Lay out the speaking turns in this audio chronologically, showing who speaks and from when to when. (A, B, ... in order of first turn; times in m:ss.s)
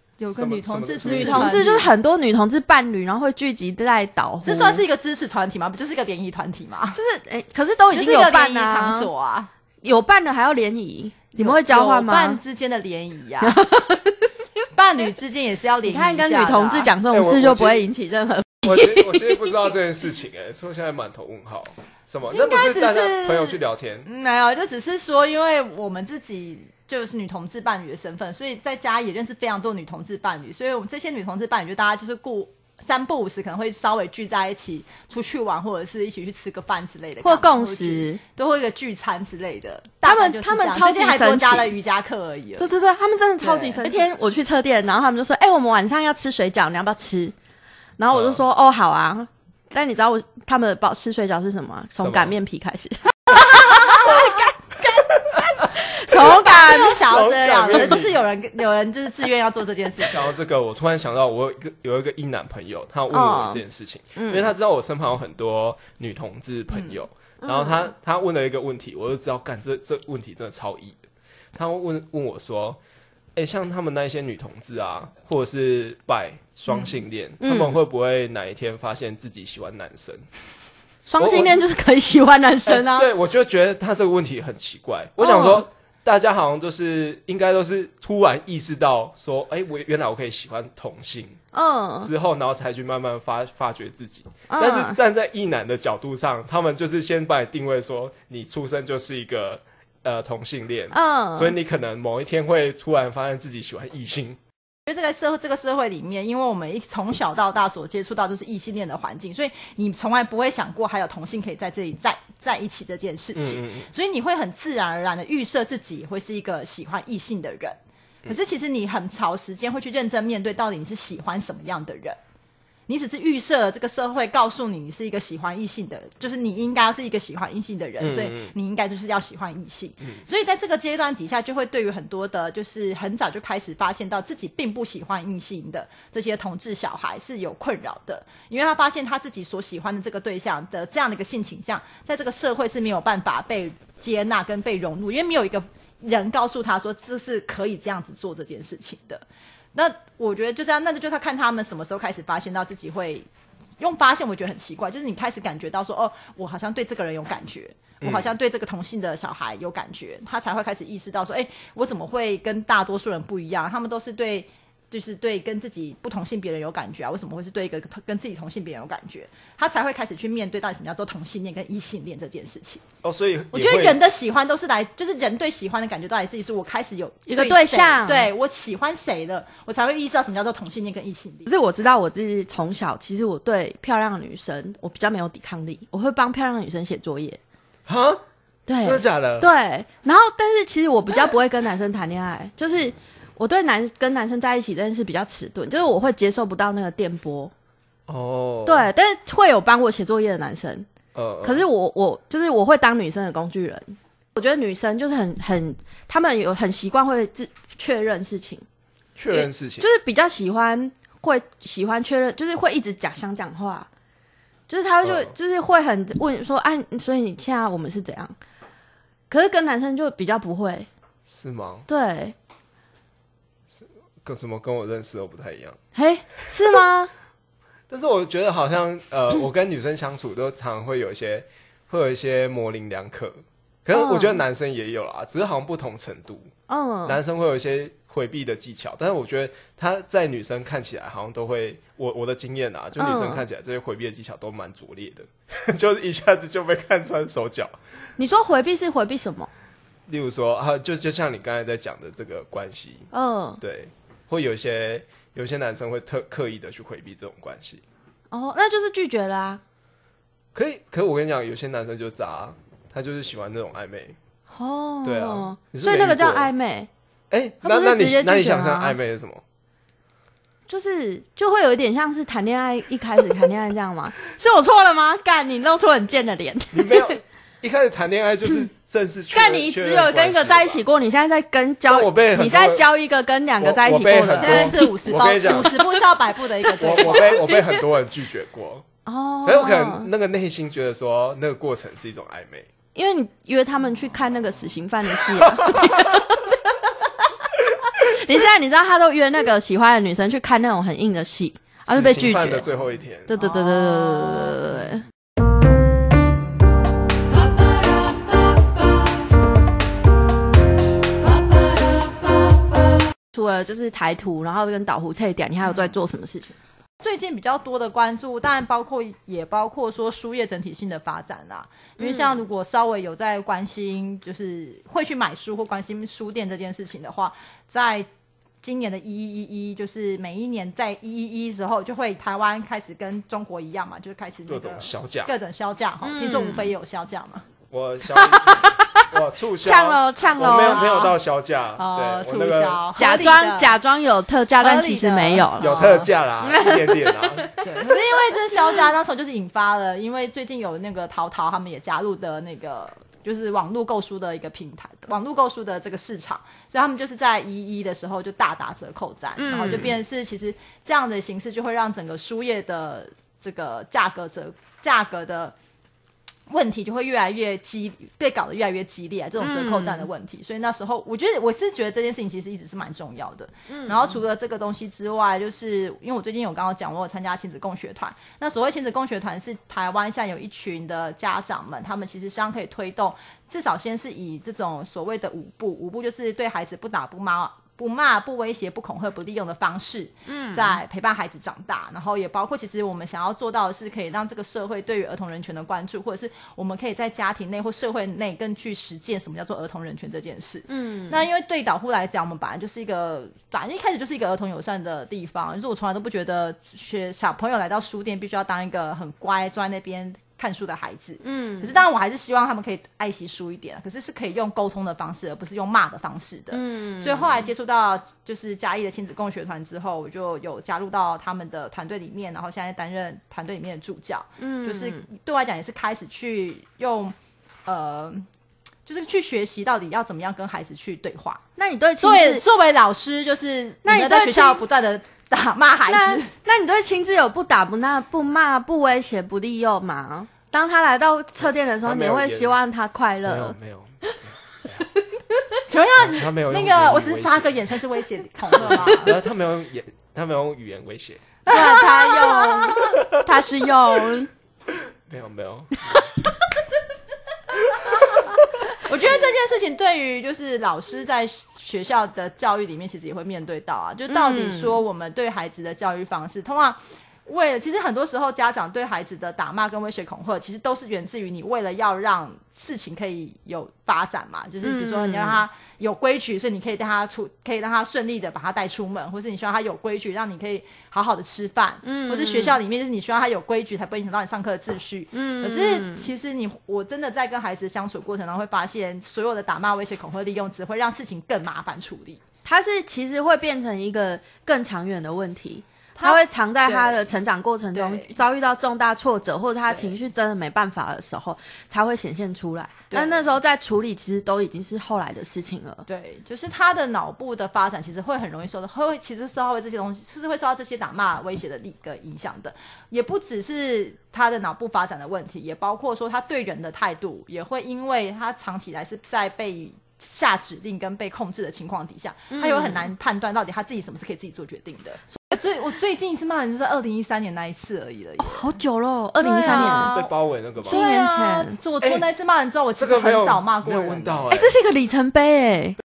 0:00.2-0:01.9 A
0:00.3-0:01.6 B
0:01.0-0:04.8 C
0:04.4-0:07.0 A
0:06.9-0:09.1 C
0:07.9-0:09.5 A
0:09.8-0:12.4 C
0:11.4-0:13.6 A
0:13.4-0:14.3 C
0:14.7-0:16.9 A
0:15.8-0:19.4 C
0:17.1-0:17.9 B
0:18.6-0:24.1 B
0:22.3-0:42.7 A
0:37.2-0:38.2 C
0:40.0-0:41.8 C
0:42.6-0:47.3 C
0:43.4-0:44.0 A
0:48.0-0:57.1 C
0:48.1-0:48.4 B
0:52.0-0:52.4 B
0:54.0-0:54.4 B
0:55.3-0:56.3 B
0:56.1-1:00.3 A
0:57.0-0:58.2 B
1:00.0-1:11.0 B
1:03.1-1:03.6 C
1:04.2-1:04.5 C
1:06.7-1:07.0 A
1:07.4-1:07.8 C
1:11.5-1:12.8 B
1:13.3-1:20.2 B
1:17.4-1:17.8 C
1:21.1-1:23.1 C
1:21.2-1:21.6 B
1:22.6-1:31.4 B
1:25.2-1:25.6 C
1:31.5-1:32.1 C
1:32.0-1:44.4 B
1:34.5-1:35.0 C
1:40.9-1:41.6 C
1:44.9-2:02.2 A
1:53.3-1:53.9 B
2:02.9-2:29.2 A
2:08.0-2:08.5 B
2:29.7-2:33.3 A
2:33.8-2:52.8 A
2:38.0-2:38.3 B
2:53.0-2:54.0 B
2:53.5-3:01.5 A
2:57.3-2:58.3 C
3:01.5-3:07.4 C
3:07.8-3:08.2 B
3:08.7-3:17.5 C
3:08.8-3:09.5 B
3:18.1-3:18.9 B
3:18.6-3:20.9 C
3:21.1-3:21.7 B
3:21.4-3:28.6 C
3:29.2-3:29.9 B
3:29.3-3:33.9 C
3:34.7-3:38.3 C
3:35.0-3:35.3 B
3:39.3-3:40.9 C
3:41.3-3:41.8 B
3:41.9-3:42.3 C
3:43.7-3:45.8 B
3:45.9-3:47.1 C
3:47.9-3:56.5 B
3:53.9-3:54.4 C
3:56.7-3:57.2 C
3:57.0-4:07.7 B
4:03.0-4:03.4 C
4:08.2-4:09.5 C
4:10.1-4:13.1 B
4:13.1-4:13.6 C
4:13.6-4:17.8 B
4:18.3-4:19.6 C
4:20.5-4:24.2 B
4:24.5-4:26.9 C
4:25.0-4:26.5 B
4:27.3-4:29.4 B
4:27.6-4:29.0 C
4:30.7-4:37.2 C
4:36.7-4:40.8 B
4:39.3-4:46.0 C
4:41.9-4:42.8 B
4:43.6-4:45.9 B
4:44.4-4:47.4 A
4:46.8-4:48.8 B
4:46.8-4:47.8 C
4:49.0-4:50.1 C
4:49.4-4:52.7 B
4:52.9-5:02.6 C
4:55.4-4:55.8 B
5:01.9-5:03.3 B
5:03.3-5:05.0 C
5:13.3-5:16.6 C
5:17.0-5:28.1 A
5:28.6-5:37.5 A
5:34.5-5:35.3 B
5:36.0-5:36.7 C
5:37.7-5:42.8 B
5:38.1-5:39.1 C
5:39.6-5:41.0 C
5:40.3-5:41.1 A
5:41.8-5:43.7 A
5:43.0-5:45.9 C
5:44.6-5:46.1 A
5:45.6-5:47.5 B
5:46.4-5:47.5 C
5:47.6-6:05.5 A
5:59.4-5:59.9 C
6:06.5-7:07.1 A
6:09.4-6:10.1 C
6:13.7-6:14.2 C
6:30.3-6:30.8 C
6:40.7-6:41.2 C
6:51.2-6:51.8 C
6:56.5-6:57.4 C
7:04.4-7:05.0 C
7:07.6-7:08.3 A
7:08.8-7:11.4 A
7:11.6-7:12.4 C
7:12.0-7:16.3 A
7:13.8-7:14.6 C
7:15.9-7:23.5 C
7:21.4-7:22.6 B
7:23.2-7:24.8 B
7:25.7-7:29.2 A
7:26.0-7:27.6 B
7:28.6-7:31.2 B
7:31.4-7:33.0 A
7:31.5-7:34.3 C
7:35.1-7:36.1 B
7:38.8-8:12.2 A
7:44.1-7:44.8 C
7:54.6-7:55.4 C
8:01.8-8:02.6 C
8:05.1-8:06.1 C
8:12.4-8:25.8 C
8:16.0-8:17.1 A
8:17.7-8:18.1 A
8:19.7-8:20.0 A
8:22.9-8:23.2 A
8:25.9-8:48.6 A
8:42.3-8:42.9 C
8:48.2-8:50.0 C
8:49.2-8:50.1 A
8:49.4-8:50.8 B
8:50.6-8:51.6 C
8:50.6-8:54.4 A
8:52.8-8:54.6 B
8:54.3-8:55.8 C